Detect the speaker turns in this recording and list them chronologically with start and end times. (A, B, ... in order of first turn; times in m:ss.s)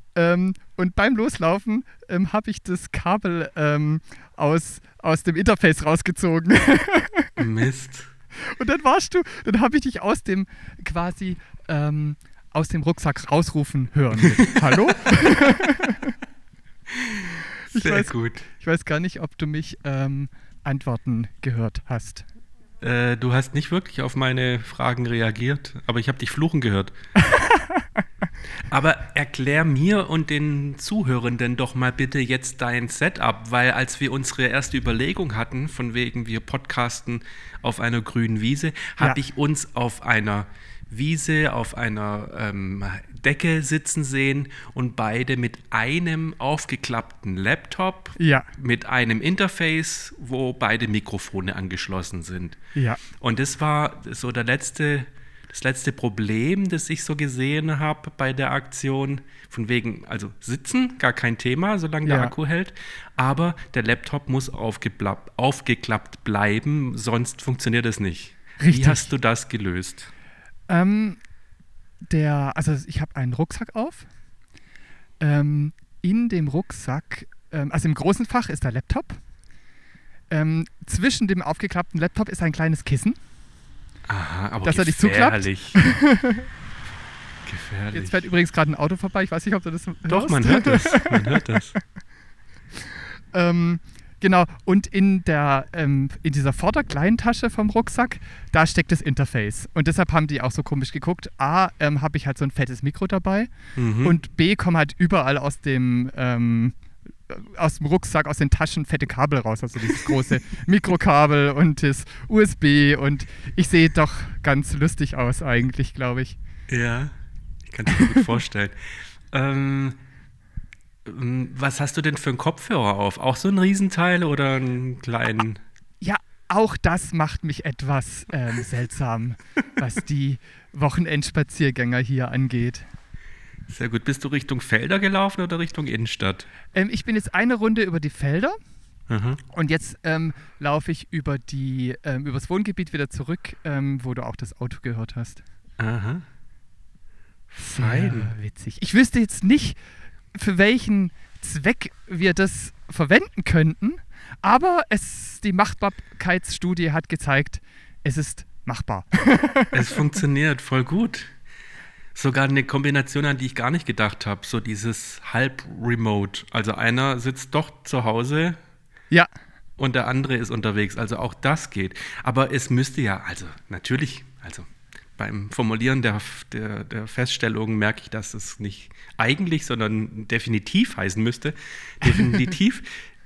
0:00.1-0:07.3 A
0:07.4-0:08.1 B
0:08.4-0:16.2 A
0:16.9-0:18.4 B
0:17.7-0:22.2 A
0:22.8-0:26.9 B
0:27.2-0:27.9 A
0:28.7-0:52.6 B
0:48.2-0:48.5 A
0:52.7-0:53.0 A
0:53.2-1:10.1 B
1:02.0-1:02.3 A
1:08.6-1:09.1 A
1:10.7-1:11.2 A
1:12.1-1:14.0 A
1:15.2-1:19.2 A
1:20.3-1:23.2 A
1:24.1-1:25.8 B
1:24.6-1:26.5 A
1:27.4-1:28.2 B
1:27.9-1:31.6 A
1:30.1-1:31.8 B
1:33.3-1:46.8 A
1:43.8-1:44.2 B
1:47.3-1:56.4 A
1:56.7-1:57.1 B
1:57.7-1:58.7 B
1:59.3-2:00.0 B
2:01.0-2:05.6 B
2:06.0-2:12.8 A
2:13.7-2:16.5 B
2:16.7-2:18.6 A
2:19.1-2:19.4 B
2:19.5-2:25.4 A
2:25.8-2:26.2 B
2:27.5-2:28.3 B
2:27.6-2:29.8 A
2:30.3-2:40.0 A
2:39.7-2:41.3 B
2:42.1-2:48.6 B
2:49.8-3:02.9 B